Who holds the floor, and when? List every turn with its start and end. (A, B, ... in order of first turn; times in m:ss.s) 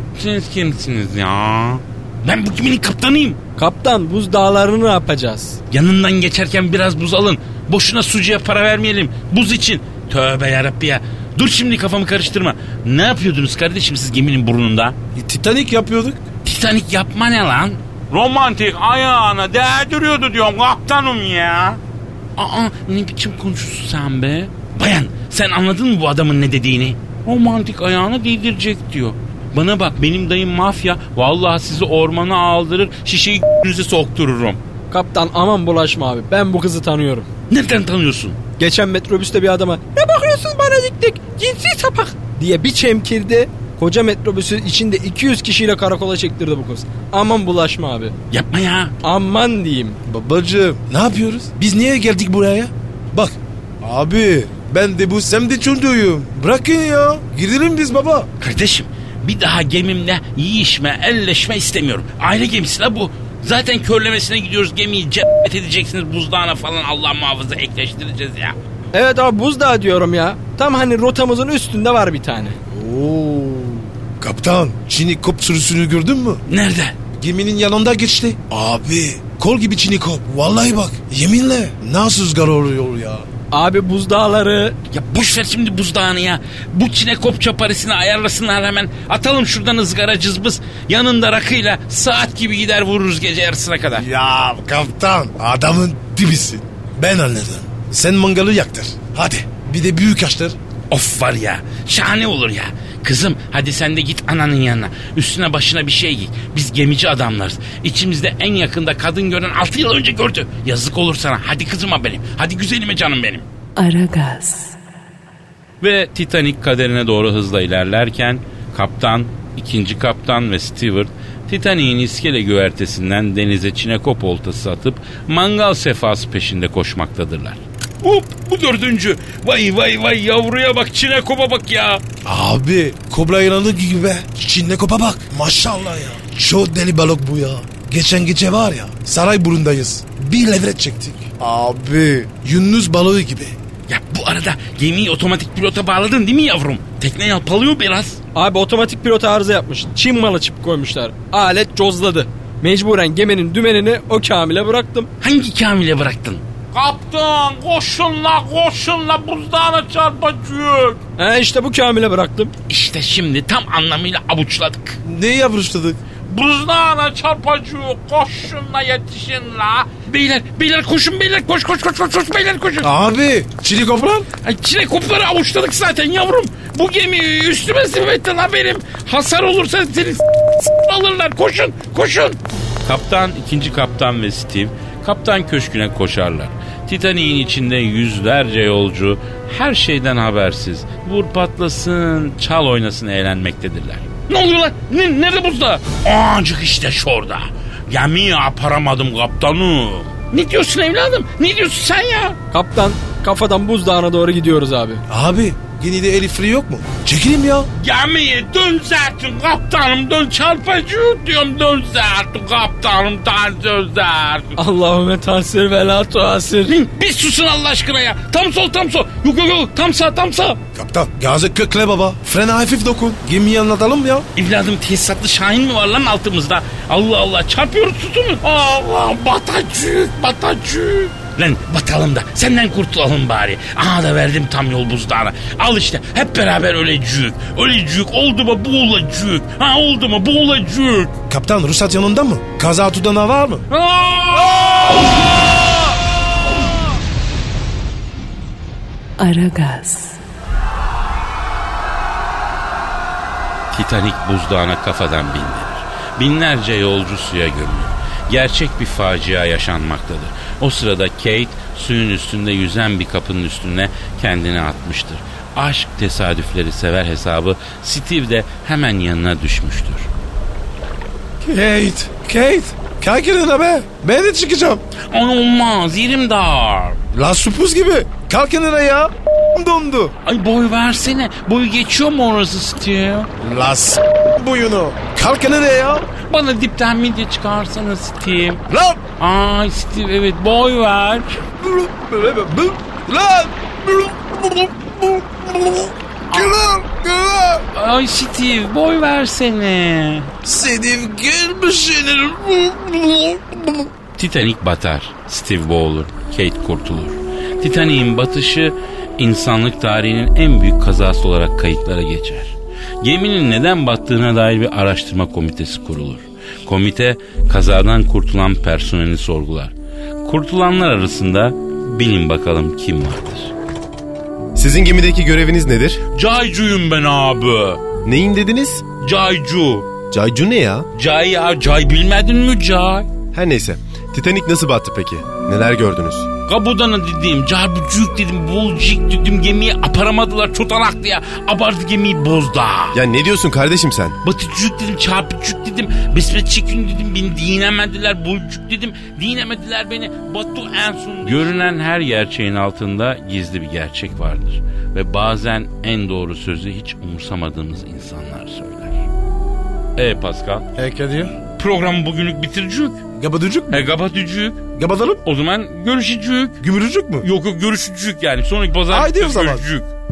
0:00.2-0:03.4 A
0:03.6-0:05.6 B
0:05.7-0:15.0 A
0:15.2-0:16.2 C
0:16.4-0:21.8 A
0:22.4-0:34.6 A
0:34.9-0:37.3 B
0:37.5-0:38.4 A
0:38.6-0:48.1 B
0:48.3-0:48.9 A
0:49.0-0:50.0 B
0:50.1-0:58.3 C
0:58.4-1:08.6 A
1:08.9-1:12.6 B
1:12.7-1:16.4 C
1:16.5-1:17.0 A
1:17.1-1:23.3 C
1:23.5-1:24.8 B
1:24.9-1:34.0 A
1:34.0-1:40.6 C
1:40.9-1:53.5 A
1:53.8-1:54.8 D
1:55.8-2:12.0 A
2:12.2-2:23.6 C
2:23.9-2:28.2 A
2:28.3-2:35.1 B
2:35.2-2:41.0 A
2:41.2-2:42.5 B
2:42.7-2:45.0 A
2:45.0-2:46.0 C
2:46.3-2:52.9 A
2:52.8-2:54.3 C
2:54.4-3:22.4 A
3:22.5-3:25.0 B
3:25.1-3:27.7 C
3:27.8-3:34.6 A
3:34.6-3:36.7 B
3:36.7-3:40.6 A
3:40.7-3:44.3 C
3:44.4-4:01.1 A
4:01.3-4:03.6 C
4:03.7-4:05.3 A
4:09.2-4:10.2 D
4:13.7-4:30.1 A
4:31.4-4:34.8 C
4:35.1-4:37.0 A
4:37.1-4:40.1 C
4:40.2-4:43.3 A
4:43.4-4:46.1 C
4:46.3-4:48.6 A
4:48.7-4:49.1 C
4:49.2-4:51.4 A
4:51.6-4:57.7 C
4:57.7-5:00.3 A
5:00.4-5:03.9 C
5:04.2-5:19.7 A
5:20.2-5:23.5 A
5:24.6-5:26.0 E
5:26.2-5:27.8 A
5:28.1-5:28.8 E
5:29.0-5:29.9 A
5:30.1-5:30.9 E
5:31.0-5:33.1 A
5:33.3-5:36.3 E
5:36.5-5:43.0 A
5:42.9-5:44.2 E
5:44.2-5:59.1 A
6:00.0-6:00.7 A
6:00.8-6:01.4 C
6:01.6-6:03.0 A
6:03.2-6:03.9 C
6:03.7-6:04.6 A
6:04.8-6:05.2 C
6:05.2-6:06.6 A
6:06.6-6:07.3 C
6:07.2-6:09.9 A
6:08.9-6:09.7 C